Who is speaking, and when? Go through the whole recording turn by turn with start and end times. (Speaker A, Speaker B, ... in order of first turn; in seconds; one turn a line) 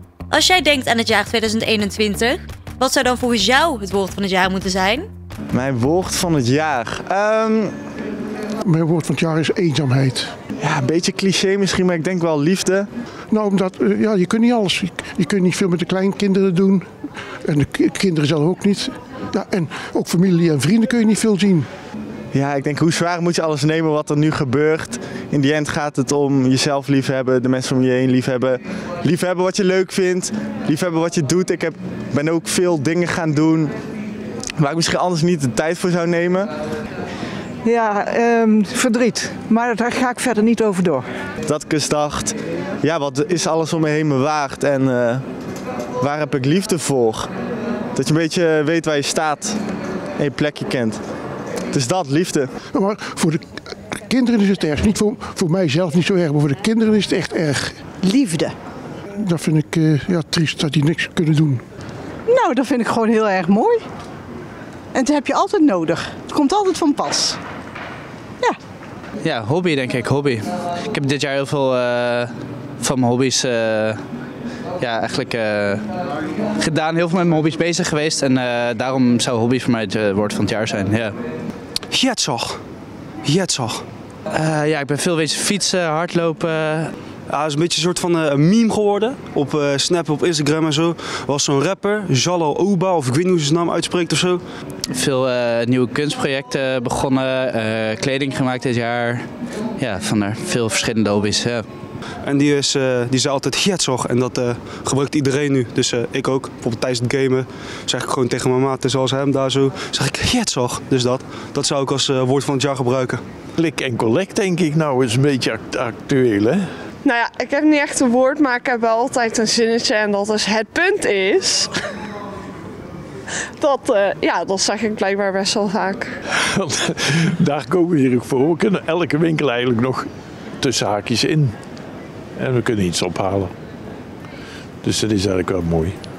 Speaker A: 0.3-5.1
Speaker B: 5.5-7.7
Speaker C: 8.6-10.3
Speaker B: 10.6-12.9
Speaker C: 13.3-16.9
Speaker C: 17.4-21.7
Speaker B: 22.3-33.7
Speaker B: 34.6-36.5
Speaker D: 37.6-41.0
Speaker B: 41.5-45.2
Speaker B: 46.0-47.3
Speaker B: 47.9-49.6
Speaker B: 50.2-51.0
Speaker B: 51.7-52.5
Speaker C: 52.7-57.8
Speaker D: 58.0-58.5
Speaker C: 59.2-61.6
Speaker D: 62.3-63.8
Speaker D: 64.9-67.4
Speaker E: 69.2-74.0
Speaker E: 74.8-75.8
Speaker E: 76.5-81.1
Speaker F: 81.9-82.6
Speaker F: 83.2-83.8
Speaker E: 84.3-86.9
Speaker F: 87.3-94.4
Speaker E: 94.9-99.2
Speaker E: 99.8-101.6
Speaker F: 102.2-113.2
Speaker G: 113.6-116.6
Speaker H: 117.0-121.7
Speaker H: 123.6-126.1
Speaker G: 126.4-130.1
Speaker G: 130.6-131.5
Speaker G: 132.4-133.5
Speaker G: 134.8-135.9